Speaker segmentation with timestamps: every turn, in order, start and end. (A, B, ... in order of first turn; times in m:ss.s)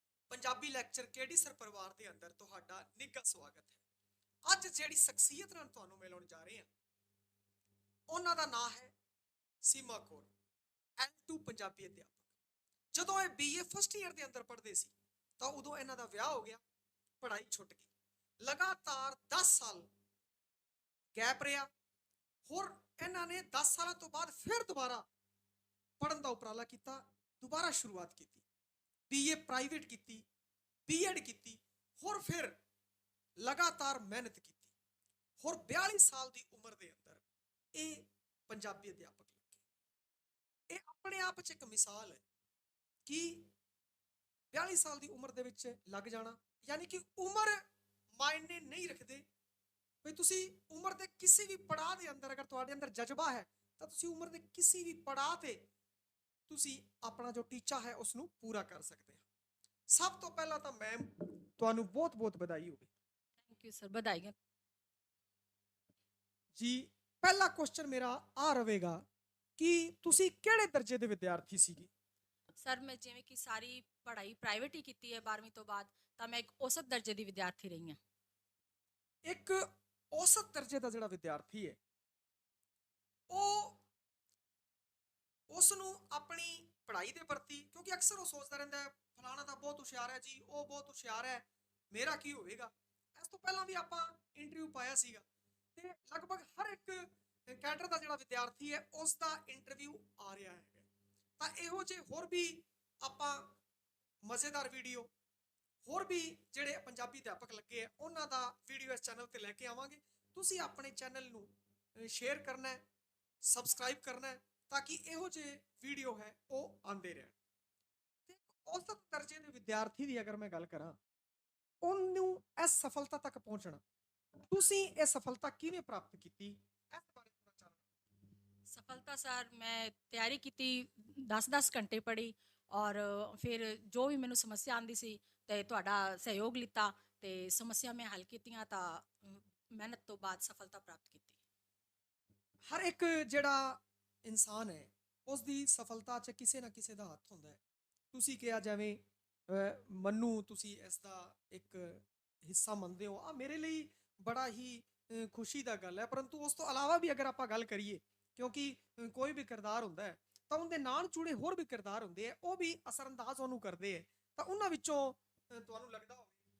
0:00.3-0:03.8 A
0:04.5-0:06.7 A
0:08.1-0:08.9 A
0:09.6-0:10.3 A
0:11.0-0:12.2 A
0:12.9-0:16.6 A
0:17.2-0:17.9 A
0:18.4-0:19.9 A
0:21.1-0:21.7 A
0:22.4-0:25.0 A
0:26.0-0:28.4 A
0:29.1-0:30.2 A
0:30.9-0:32.6 A
0:33.4-0:34.7 A
0:35.4-0:37.2 A
0:37.7-0:39.6 A
0:40.7-0:42.2 A
0:43.0-0:43.5 A
0:44.5-0:47.6 A
0:48.2-0:49.2 A
0:50.0-0:55.6 A
0:56.5-0:59.2 A
0:59.9-1:02.9 A
1:03.4-1:04.3 B
1:06.5-1:09.0 A
1:09.6-1:11.9 A
1:12.6-1:18.0 B
1:19.3-1:21.8 A
1:23.3-1:23.8 A
1:25.5-1:35.2 A
1:35.8-1:40.9 A
1:41.4-1:43.5 A
1:44.3-1:45.1 A
1:45.8-1:52.8 A
1:53.4-1:57.3 A
1:58.3-2:01.0 A
2:01.8-2:03.8 A
2:04.5-2:07.8 A
2:08.7-2:21.4 B
2:22.7-2:27.6 A
2:28.1-2:46.3 A